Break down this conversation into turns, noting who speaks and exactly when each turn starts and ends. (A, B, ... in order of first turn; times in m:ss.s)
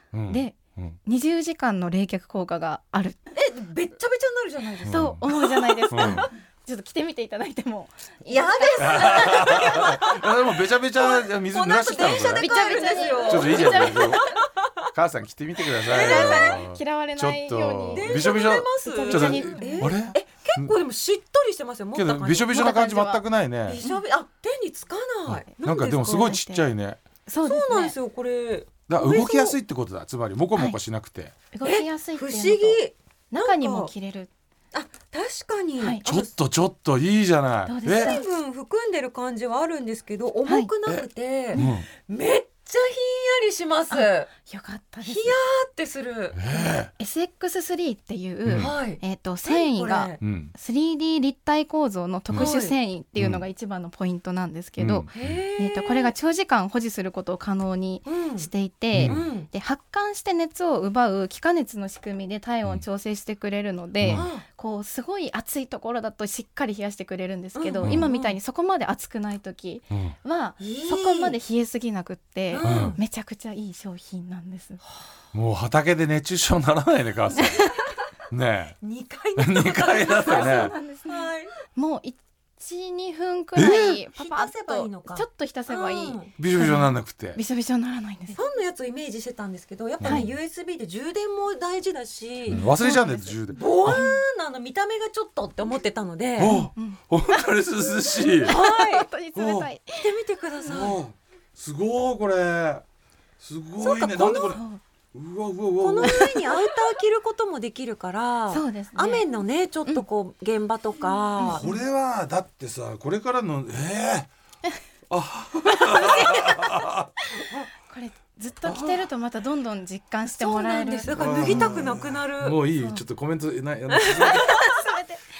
0:00.1-0:01.0 A
0:00.3-0:03.2 B
0:03.3-0:06.2 C
0:04.8-0:05.2 A
0:04.9-0:10.0 B
0:05.9-0:06.3 A
0:08.3-0:10.3 C
0:08.8-0:14.2 A
0:11.0-0:14.5 C
0:12.4-0:14.3 B
0:14.9-0:20.7 A
0:15.8-0:16.6 C
0:15.9-0:20.0 B
0:17.9-0:22.7 C
0:22.0-0:23.8 A
0:22.5-0:23.2 B
0:23.7-0:26.4 C
0:25.3-0:27.0 A
0:26.1-0:26.7 B
0:27.3-0:28.0 B
0:27.4-0:29.6 C
0:28.9-0:31.3 A
0:31.5-0:32.8 B
0:31.6-0:33.9 C
0:33.3-0:34.3 B
0:34.7-0:36.3 C
0:36.0-0:38.2 A
0:37.7-0:38.2 B
0:37.9-0:44.3 C
0:40.9-0:41.9 A
0:43.9-0:45.3 B
0:45.0-0:46.4 C
0:46.4-0:46.9 A
0:46.5-1:14.8 B
0:48.4-0:48.7 A
0:48.6-0:50.2 C
0:50.2-0:50.5 A
0:52.3-0:52.8 C
0:53.2-0:53.4 A
0:54.8-0:55.4 A
0:55.1-0:56.1 C
0:58.0-0:58.5 C
0:58.9-0:59.3 A
0:59.0-0:59.5 C
1:04.0-1:04.3 A
1:04.1-1:04.4 C
1:07.6-1:08.4 C
1:07.8-1:08.1 A
1:10.6-1:11.4 C
1:12.5-1:13.0 C
1:12.6-1:13.0 A
1:15.3-1:17.8 A
1:18.3-1:18.8 A
1:18.8-1:21.5 C
1:19.4-1:20.8 A
1:20.2-1:28.4 B
1:23.6-1:26.3 C
1:26.4-1:27.4 A
1:28.3-1:32.6 C
1:30.0-1:30.3 A
1:30.0-1:30.3 B
1:32.5-1:34.0 A
1:32.5-1:34.2 B
1:33.5-1:36.6 C
1:36.4-1:38.5 A
1:36.5-1:37.5 B
1:38.2-1:40.1 B
1:38.4-1:39.1 C
1:39.4-1:39.7 A
1:40.0-1:41.0 C
1:40.7-1:42.8 A
1:43.4-1:44.6 A
1:43.8-1:44.6 C
1:44.5-1:44.8 B
1:45.1-1:46.3 A
1:45.8-1:51.7 C
1:46.1-1:46.6 B
1:48.5-1:49.2 B
1:51.4-1:51.7 B
1:51.4-1:54.3 A
1:55.1-1:57.2 A
1:56.0-1:56.6 B
1:57.5-2:01.8 B
1:58.7-1:59.0 A
2:00.2-2:02.6 C
2:01.1-2:04.7 A
2:04.0-2:04.8 C
2:04.2-2:05.2 B